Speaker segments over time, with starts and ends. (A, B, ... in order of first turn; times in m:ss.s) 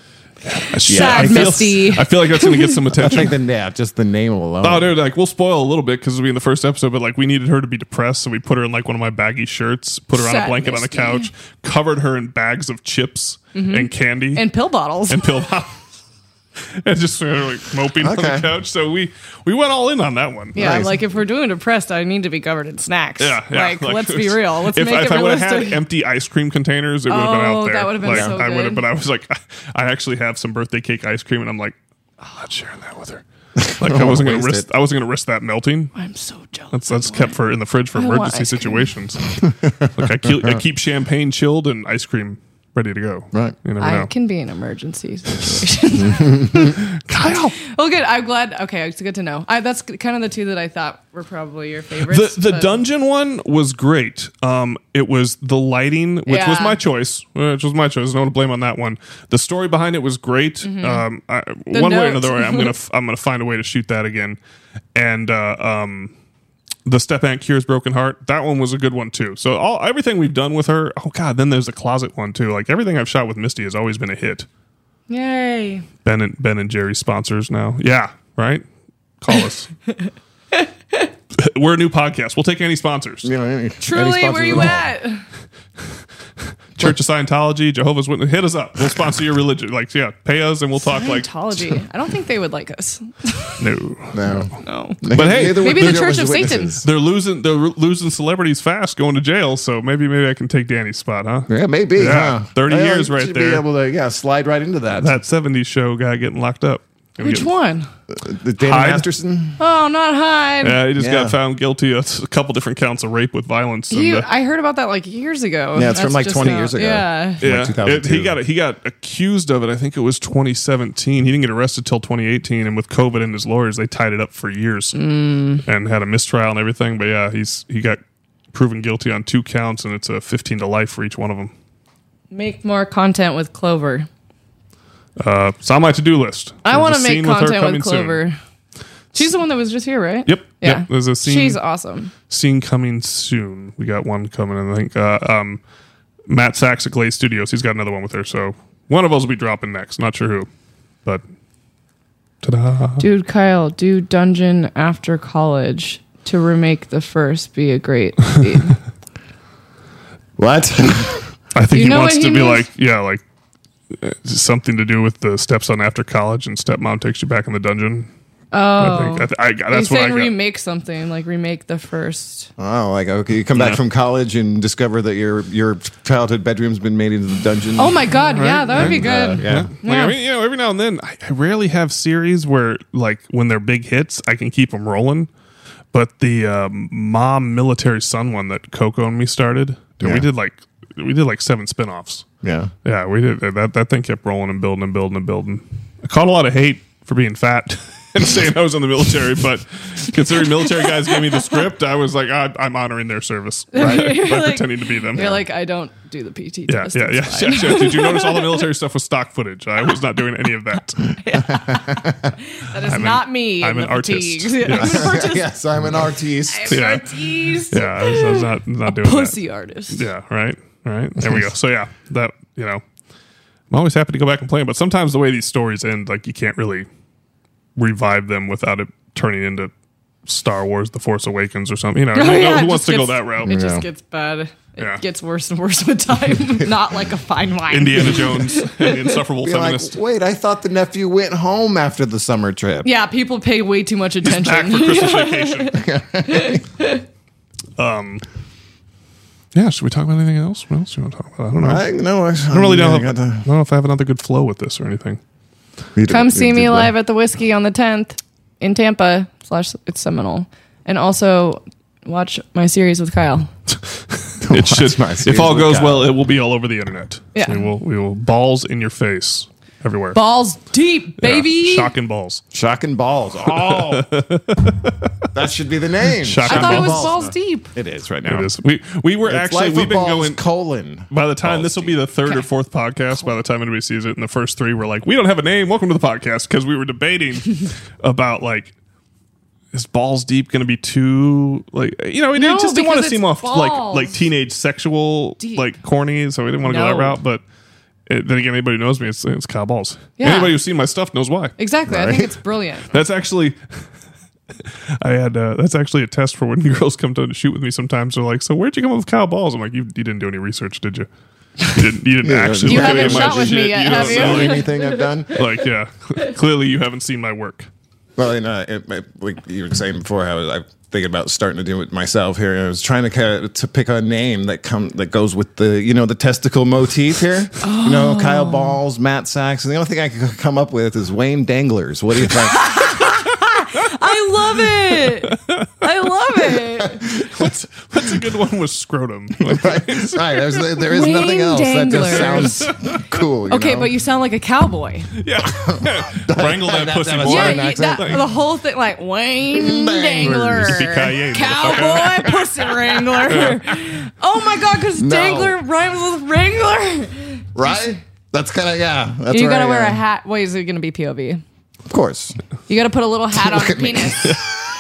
0:00.4-0:03.4 A
0:00.9-0:02.8 B
0:00.9-0:01.7 C
0:03.0-0:05.0 C
0:04.6-0:14.5 A
0:10.1-0:11.3 B
0:13.5-0:15.2 B
0:15.1-0:15.8 A
0:16.8-0:20.8 A
0:18.0-0:18.5 C
0:20.5-0:25.8 B
0:20.6-0:21.0 C
0:23.2-0:33.2 A
0:27.1-0:28.8 B
0:28.0-0:28.4 C
0:33.6-0:34.7 C
0:33.8-0:35.9 A
0:36.0-0:37.4 B
0:36.7-0:39.2 A
0:38.0-0:38.9 B
0:39.4-0:40.6 C
0:39.9-0:44.1 A
0:43.8-0:52.8 B
0:46.0-0:46.6 C
0:46.7-0:47.6 A
0:52.0-1:04.4 A
0:56.3-0:56.8 B
1:00.6-1:01.0 B
1:01.7-1:02.7 B
1:05.0-1:06.1 A
1:06.9-1:14.5 A
1:15.1-1:15.9 B
1:16.0-1:18.6 A
1:19.2-1:19.7 A
1:20.5-1:21.1 B
1:21.3-1:23.3 A
1:23.2-1:24.9 C
1:23.8-1:25.2 B
1:26.8-1:31.3 A
1:30.8-1:33.7 B
1:33.6-1:34.6 A
1:34.1-1:36.9 C
1:34.6-1:36.8 B
1:35.1-1:43.6 A
1:41.5-1:45.2 C
1:45.0-1:47.5 A
1:47.2-1:47.9 B
1:48.1-1:49.6 C
1:48.6-1:49.1 A
1:49.6-1:50.8 B
1:50.6-1:54.3 A
1:51.0-1:51.4 C
1:53.9-1:57.4 B
1:55.7-1:58.4 C
1:57.4-2:05.0 A
2:04.9-2:05.6 B
2:05.6-2:08.0 A
2:08.5-2:11.5 A
2:12.3-2:14.1 B
2:15.2-2:18.2 A
2:16.6-2:18.4 B
2:19.1-2:22.1 B
2:20.3-2:21.6 A
2:22.3-2:25.6 A
2:26.3-2:30.5 A
2:32.4-2:33.0 A
2:33.0-2:38.8 B
2:40.4-2:41.2 C
2:41.5-2:43.2 A
2:41.7-2:42.6 B
2:43.9-2:48.1 A
2:48.5-2:52.5 B
2:48.8-2:50.3 A
2:52.6-2:59.7 C
2:53.6-2:53.8 A
2:57.8-3:00.2 B
2:58.4-3:05.3 A
3:05.9-3:12.3 A
3:10.0-3:10.3 C
3:12.4-3:12.7 C
3:12.8-3:25.4 A
3:20.8-3:21.6 B
3:23.7-3:28.6 B
3:26.7-3:31.1 A
3:31.1-3:35.5 B
3:31.5-3:32.3 C
3:32.8-3:35.2 A
3:34.7-3:36.8 C
3:36.5-3:40.1 B
3:36.7-3:39.4 A
3:39.9-3:42.8 A
3:43.7-3:46.9 A
3:47.8-3:49.7 A
3:50.3-3:53.5 A
3:52.1-3:59.1 B
3:53.4-3:53.9 C
3:57.7-4:00.0 A
3:59.4-4:02.9 C
4:02.8-4:07.0 B
4:04.2-4:05.8 A
4:05.7-4:06.6 C
4:07.8-4:08.2 A
4:09.6-4:11.8 A
4:11.6-4:13.5 C
4:12.4-4:15.2 A
4:16.0-4:16.9 C
4:16.1-4:23.5 B
4:23.7-4:30.2 A
4:24.4-4:26.1 C
4:27.4-4:27.7 B
4:30.1-4:31.9 B
4:31.2-4:32.4 A
4:32.5-4:34.1 C
4:33.5-4:35.1 A
4:35.3-4:38.5 C
4:36.2-4:37.1 A
4:36.4-4:37.7 B
4:38.3-4:40.4 A
4:39.2-4:42.0 C
4:41.1-4:48.7 A
4:49.7-4:57.4 A
4:52.4-4:54.2 B
4:56.6-4:57.2 B
4:58.1-5:01.5 A
5:00.2-5:00.6 B
5:01.6-5:02.9 B
5:01.9-5:02.3 C
5:02.9-5:03.6 A
5:05.0-5:11.1 A
5:11.7-5:14.7 A
5:12.2-5:15.4 C
5:12.6-5:15.0 B
5:15.3-5:17.7 A
5:18.2-5:32.9 C
5:27.6-5:28.8 B
5:32.6-5:37.0 B
5:34.7-5:35.9 A
5:37.0-5:37.5 C
5:37.0-5:40.8 A
5:39.4-5:43.9 C
5:40.9-5:42.8 B
5:41.9-5:43.0 A
5:43.5-5:45.1 B
5:45.2-5:48.3 A
5:45.4-5:48.2 C
5:47.2-5:57.4 B
5:49.5-5:51.0 C
5:50.2-5:53.7 A
5:51.6-5:52.1 C
5:55.0-5:55.6 C
5:57.6-6:00.0 C
5:59.3-6:01.4 B
6:01.9-6:02.4 C
6:02.7-6:04.4 B
6:03.3-6:04.4 C